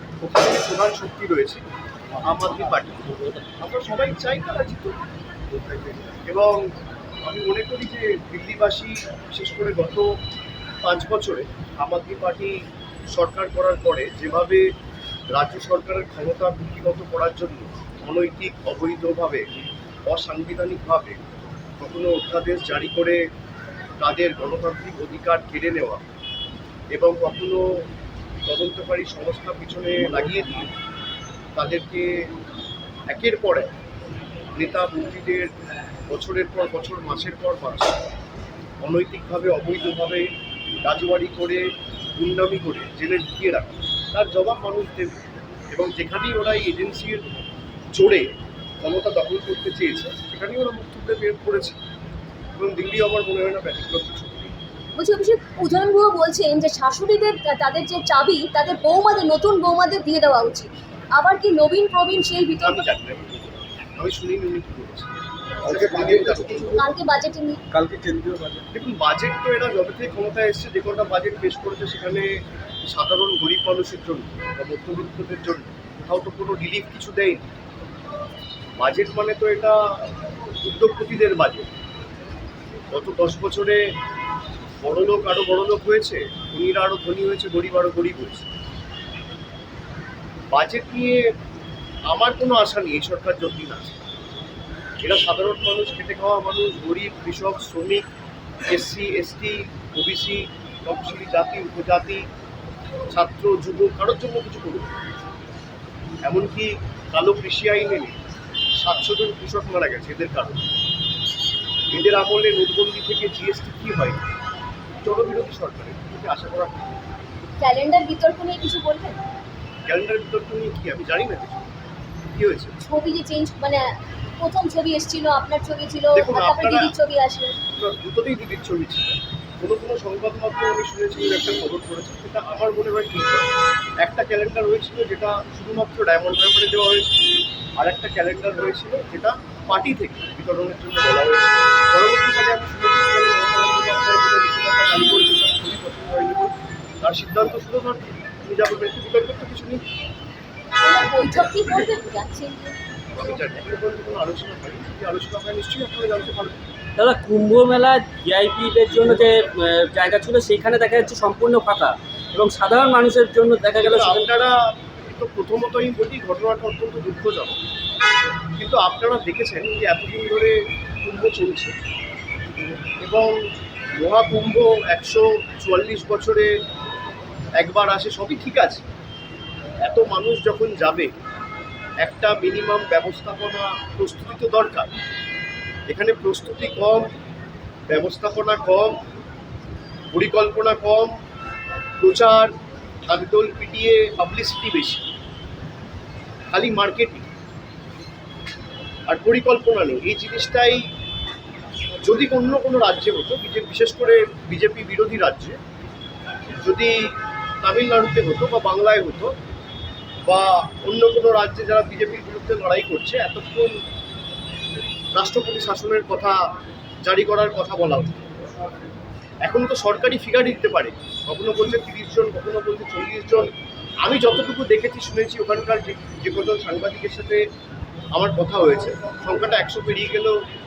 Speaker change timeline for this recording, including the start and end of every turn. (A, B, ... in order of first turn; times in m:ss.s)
0:00.2-0:01.6 A
0:02.2-0:05.0 A
0:05.5-0:06.7 A
0:07.2-0:10.2 A
0:10.8-0:14.7 A
0:15.3-0:19.5 A
0:20.1-0:23.2 A
0:24.0-0:26.0 A
0:26.9-0:27.8 A
0:28.5-0:30.7 A
0:31.6-0:32.3 A
0:33.1-0:33.7 A
0:34.6-0:35.5 A
0:36.1-0:38.0 A
0:38.8-0:40.3 A
0:40.8-0:47.3 A
0:47.9-0:48.3 A
0:48.8-0:51.8 A
0:52.6-0:54.5 A
0:55.0-1:02.9 B
1:02.6-1:05.1 A
1:05.6-1:06.8 A
1:05.6-1:06.8 C
1:06.7-1:07.6 B
1:07.7-1:08.7 C
1:08.7-1:17.4 A
1:18.8-1:21.7 A
1:22.9-1:23.8 A
1:24.8-1:28.5 A
1:30.5-1:31.2 A
1:32.1-1:34.0 A
1:35.0-1:38.0 A
1:38.7-1:42.3 A
1:43.1-1:44.9 A
1:46.2-1:48.2 A
1:48.8-1:50.6 A
1:51.9-1:54.3 A
1:55.0-1:57.0 A
1:57.6-1:59.2 B
1:59.9-2:01.7 A
2:02.3-2:02.8 A
2:02.8-2:03.9 B
2:04.4-2:07.6 B
2:06.1-2:06.9 A
2:07.8-2:13.5 A
2:14.0-2:17.3 A
2:17.8-2:29.8 A
2:30.8-2:32.8 B
2:33.2-2:36.6 A
2:37.0-2:44.3 D
2:43.8-2:47.6 A
2:48.6-2:51.8 A
2:53.0-2:53.4 A
2:54.0-2:56.5 A
2:57.6-2:58.8 A
2:59.8-3:01.1 A
3:02.0-3:04.9 A
3:05.9-3:07.1 A
3:07.9-3:09.0 A
3:10.1-3:11.1 A
3:12.0-3:12.5 A
3:13.1-3:15.0 A
3:16.5-3:17.3 A
3:19.1-3:20.9 A
3:22.0-3:25.6 A
3:26.6-3:29.4 A
3:30.3-3:33.8 A
3:35.1-3:36.4 A
3:37.0-3:38.3 A
3:39.4-3:47.4 A
3:48.1-3:50.4 A